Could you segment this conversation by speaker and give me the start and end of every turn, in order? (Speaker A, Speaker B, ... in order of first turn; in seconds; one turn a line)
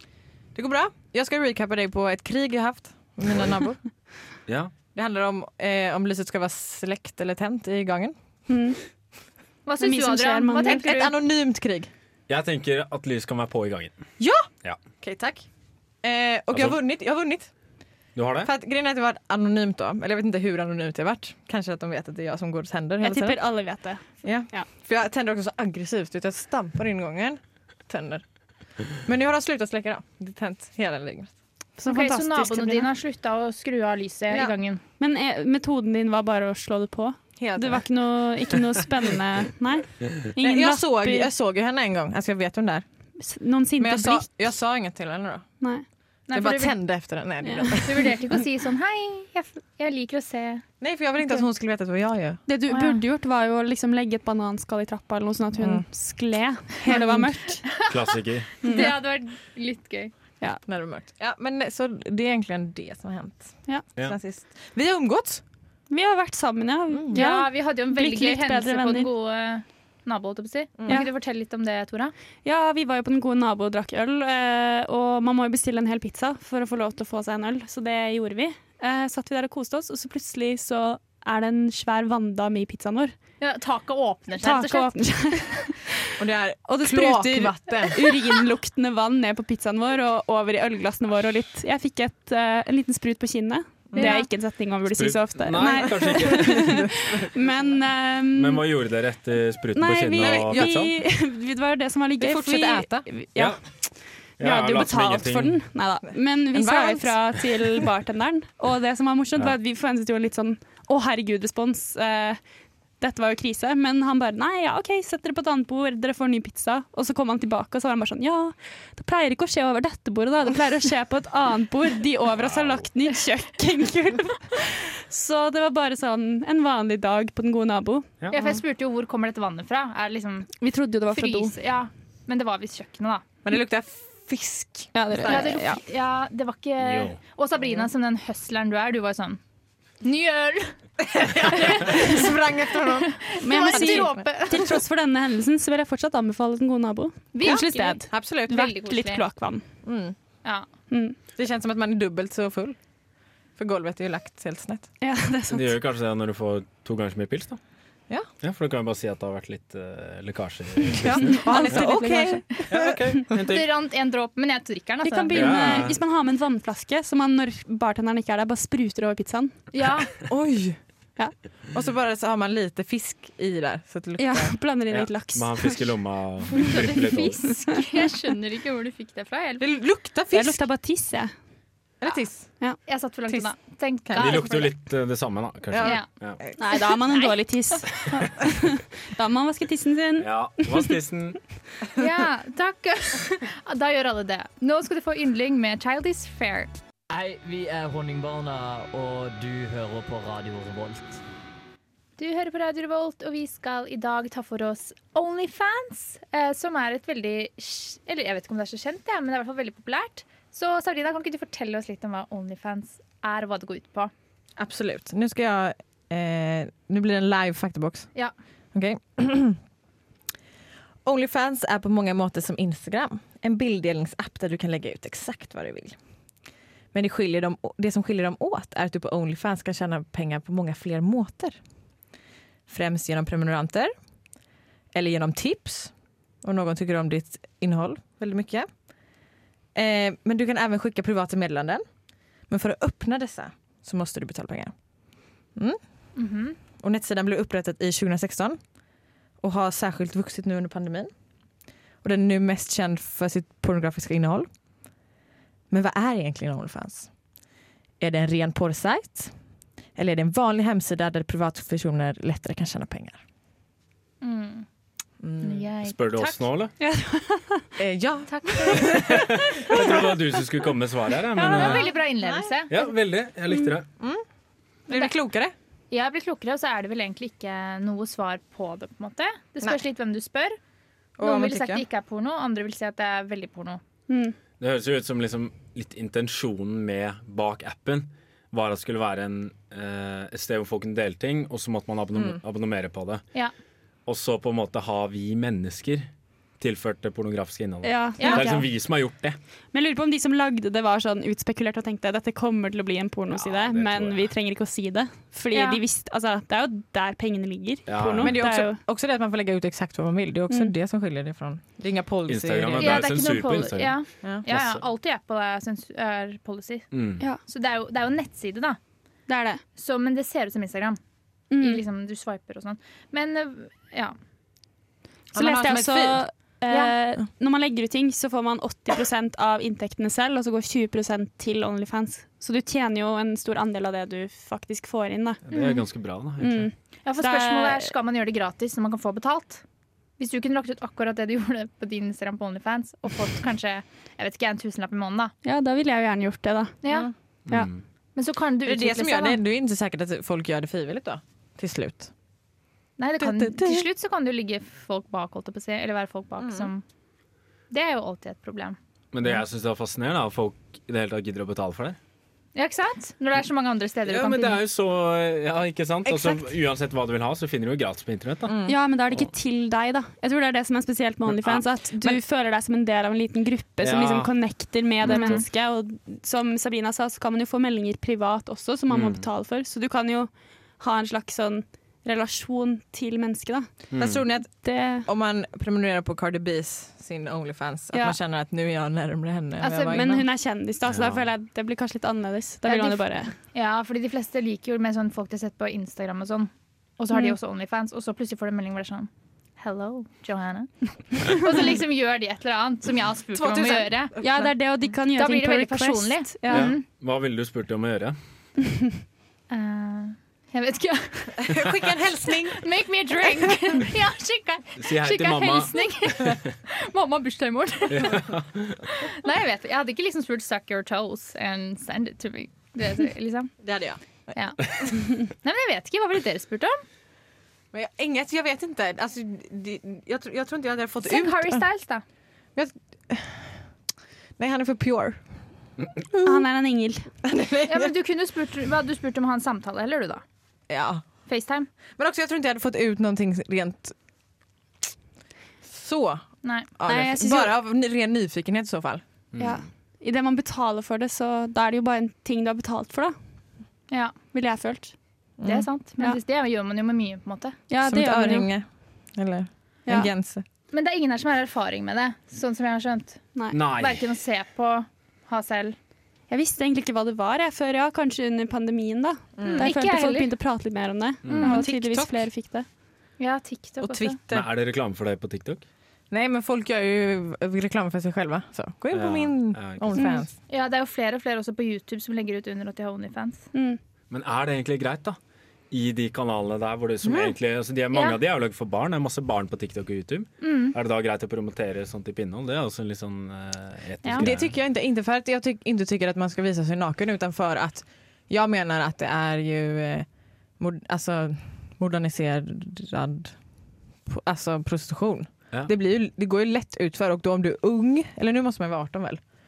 Speaker A: 0.5-3.8
Speaker A: 4.9-8.2
Speaker B: 8.5-8.8
Speaker C: 9.7-11.1
Speaker B: 9.8-10.8
Speaker A: 10.6-11.9
Speaker D: 12.3-13.9
Speaker A: 14.2-14.4
Speaker A: 15.0-15.4
Speaker A: 16.0-17.5
Speaker D: 16.5-16.8
Speaker D: 18.1-18.5
Speaker A: 18.4-23.4
Speaker B: 23.0-24.7
Speaker A: 24.2-28.2
Speaker A: 28.9-31.3
Speaker B: 31.8-32.9
Speaker C: 31.9-34.8
Speaker B: 35.0-41.3
Speaker A: 37.4-37.8
Speaker A: 40.4-42.8
Speaker B: 43.2-44.3
Speaker A: 43.8-45.5
Speaker C: 46.3-46.8
Speaker A: 46.3-48.2
Speaker B: 47.4-47.8
Speaker C: 47.8-50.6
Speaker A: 50.8-52.4
Speaker B: 52.5-57.6
Speaker C: 52.7-53.0
Speaker A: 55.6-55.9
Speaker A: 56.8-57.6
Speaker D: 57.9-58.6
Speaker C: 58.6-60.1
Speaker B: 58.6-58.9
Speaker A: 60.6-65.4
Speaker B: 65.9-69.1
Speaker A: 66.9-67.2
Speaker C: 67.1-72.1
Speaker A: 70.8-71.0
Speaker B: 72.4-83.1
Speaker C: 83.4-85.1
Speaker B: 84.4-86.1
Speaker A: 86.2-88.1
Speaker B: 86.7-98.6
Speaker C: 94.0-94.3
Speaker D: 94.9-96.8
Speaker A: 96.0-97.3
Speaker D: 98.3-100.9
Speaker B: 99.7-103.7
Speaker A: 100.2-100.8
Speaker A: 102.2-103.0
Speaker D: 103.3-103.6
Speaker D: 104.4-105.5
Speaker B: 104.4-112.4
Speaker A: 106.5-107.7
Speaker B: 113.0-128.1
Speaker D: 122.4-122.8
Speaker C: 128.3-130.5
Speaker B: 130.6-131.5
Speaker C: 131.1-133.2
Speaker A: 133.4-135.6
Speaker B: 134.9-135.8
Speaker C: 135.2-139.4
Speaker D: 136.8-137.2
Speaker C: 140.0-140.8
Speaker A: 141.0-144.7
Speaker C: 141.4-142.2
Speaker C: 142.9-144.7
Speaker B: 143.4-149.6
Speaker C: 147.3-149.2
Speaker A: 147.4-148.6
Speaker A: 149.8-150.2
Speaker B: 150.9-151.2
Speaker A: 151.4-152.8
Speaker A: 153.6-154.9
Speaker B: 155.0-155.7
Speaker D: 155.5-157.6
Speaker D: 158.4-161.9
Speaker A: 160.9-163.0
Speaker B: 161.3-162.4
Speaker D: 162.7-163.7
Speaker C: 163.3-165.7
Speaker B: 165.0-169.5
Speaker D: 165.3-166.0
Speaker C: 169.7-170.1
Speaker A: 170.2-170.8
Speaker A: 171.7-174.6
Speaker B: 174.2-175.9
Speaker D: 174.9-177.5
Speaker C: 176.7-179.6
Speaker A: 179.6-180.6
Speaker B: 180.3-181.3
Speaker A: 182.0-182.5
Speaker C: 182.8-184.7
Speaker A: 184.0-184.6
Speaker D: 184.2-186.4
Speaker A: 185.7-186.9
Speaker B: 186.6-190.9
Speaker D: 190.2-191.4
Speaker C: 191.9-196.7
Speaker E: 197.1-201.2
Speaker C: 202.2-214.1
Speaker A: 214.6-218.1
Speaker A: 218.7-219.6
Speaker A: 221.0-225.9
Speaker A: 226.9-231.6
Speaker A: 232.7-233.9
Speaker A: 234.9-235.9
Speaker A: 236.4-238.7
Speaker A: 239.7-241.8
Speaker A: 242.5-244.7
Speaker C: 246.2-246.6
Speaker A: 246.8-248.6
Speaker A: 249.4-251.1
Speaker A: 252.0-254.5
Speaker A: 255.7-257.1
Speaker A: 258.0-259.3
Speaker A: 259.9-263.2
Speaker C: 264.2-264.7
Speaker A: 265.2-265.7
Speaker C: 265.4-266.4
Speaker D: 265.8-266.7
Speaker B: 266.8-267.6
Speaker A: 267.8-270.1
Speaker C: 268.3-269.1
Speaker D: 268.8-271.9
Speaker A: 271.3-272.5
Speaker C: 271.4-272.7
Speaker D: 272.7-273.9
Speaker A: 273.6-274.2
Speaker A: 274.9-275.5
Speaker C: 275.9-280.6
Speaker A: 281.2-281.8
Speaker C: 281.2-283.8
Speaker B: 284.1-284.4
Speaker D: 284.6-293.2
Speaker A: 292.1-292.4
Speaker D: 294.1-296.1
Speaker D: 296.6-299.4
Speaker B: 297.8-298.6
Speaker C: 298.2-298.5
Speaker B: 299.7-308.8
Speaker D: 303.3-304.2
Speaker C: 305.5-305.8
Speaker D: 307.9-308.3
Speaker A: 308.2-313.3
Speaker D: 312.3-313.9
Speaker C: 312.8-316.9
Speaker D: 314.5-314.8
Speaker D: 316.9-317.2
Speaker C: 317.5-318.8
Speaker B: 319.3-319.6
Speaker C: 319.8-321.0
Speaker B: 321.5-321.8
Speaker C: 321.6-324.1
Speaker A: 325.3-326.2
Speaker B: 325.3-335.4
Speaker D: 335.5-336.7
Speaker C: 335.5-335.8
Speaker B: 336.4-337.9
Speaker C: 337.0-339.6
Speaker C: 340.2-345.3
Speaker B: 345.4-346.7
Speaker C: 346.8-347.1
Speaker D: 347.5-347.8
Speaker C: 348.1-349.4
Speaker A: 348.6-352.1
Speaker C: 353.0-356.8
Speaker A: 353.2-353.9
Speaker A: 356.4-356.7
Speaker C: 357.7-358.8
Speaker D: 359.1-362.0
Speaker C: 362.5-364.6
Speaker D: 364.1-368.5
Speaker A: 366.0-366.5
Speaker A: 368.4-368.8
Speaker B: 368.7-383.7
Speaker D: 371.3-371.6
Speaker D: 373.8-375.4
Speaker A: 375.1-375.4
Speaker D: 378.9-379.2
Speaker D: 383.9-384.2
Speaker A: 384.0-390.2
Speaker B: 384.6-385.1
Speaker C: 389.6-390.0
Speaker B: 389.9-393.3
Speaker D: 390.9-391.2
Speaker C: 392.6-404.1
Speaker A: 403.3-404.5
Speaker B: 404.2-406.7
Speaker C: 405.1-406.8
Speaker D: 406.5-408.2
Speaker C: 409.5-411.4
Speaker A: 411.4-412.7
Speaker C: 412.5-418.2
Speaker A: 413.2-413.5
Speaker D: 414.8-416.3
Speaker D: 417.9-418.8
Speaker C: 418.9-423.5
Speaker A: 423.6-424.3
Speaker C: 424.3-424.6
Speaker C: 425.2-426.8
Speaker A: 427.7-431.6
Speaker C: 431.0-432.0
Speaker A: 432.6-433.7
Speaker A: 434.4-435.2
Speaker A: 436.1-436.4
Speaker B: 436.2-437.1
Speaker A: 437.2-437.9
Speaker C: 437.7-440.2
Speaker A: 440.7-441.0
Speaker C: 441.3-441.7
Speaker A: 441.9-443.9
Speaker A: 445.6-449.0
Speaker C: 446.4-446.7
Speaker B: 446.9-447.5
Speaker D: 449.3-449.6
Speaker B: 449.4-453.1
Speaker C: 453.9-454.1
Speaker B: 454.3-454.9
Speaker A: 455.4-455.7
Speaker C: 455.4-457.6
Speaker B: 457.7-458.5
Speaker A: 457.8-460.4
Speaker C: 460.7-465.8
Speaker D: 463.5-464.0
Speaker B: 466.3-472.6
Speaker A: 469.4-469.7
Speaker C: 469.4-470.3
Speaker D: 471.2-471.6
Speaker A: 471.4-472.2
Speaker C: 473.2-474.2
Speaker A: 473.8-474.5
Speaker D: 474.3-475.6
Speaker A: 476.1-480.3
Speaker D: 478.9-480.0
Speaker C: 480.0-483.5
Speaker B: 483.5-483.8
Speaker D: 484.1-485.2
Speaker D: 485.7-494.5
Speaker A: 487.0-487.3
Speaker C: 487.9-488.2
Speaker C: 490.4-490.7
Speaker A: 494.1-500.1
Speaker A: 500.6-503.3
Speaker A: 504.1-509.2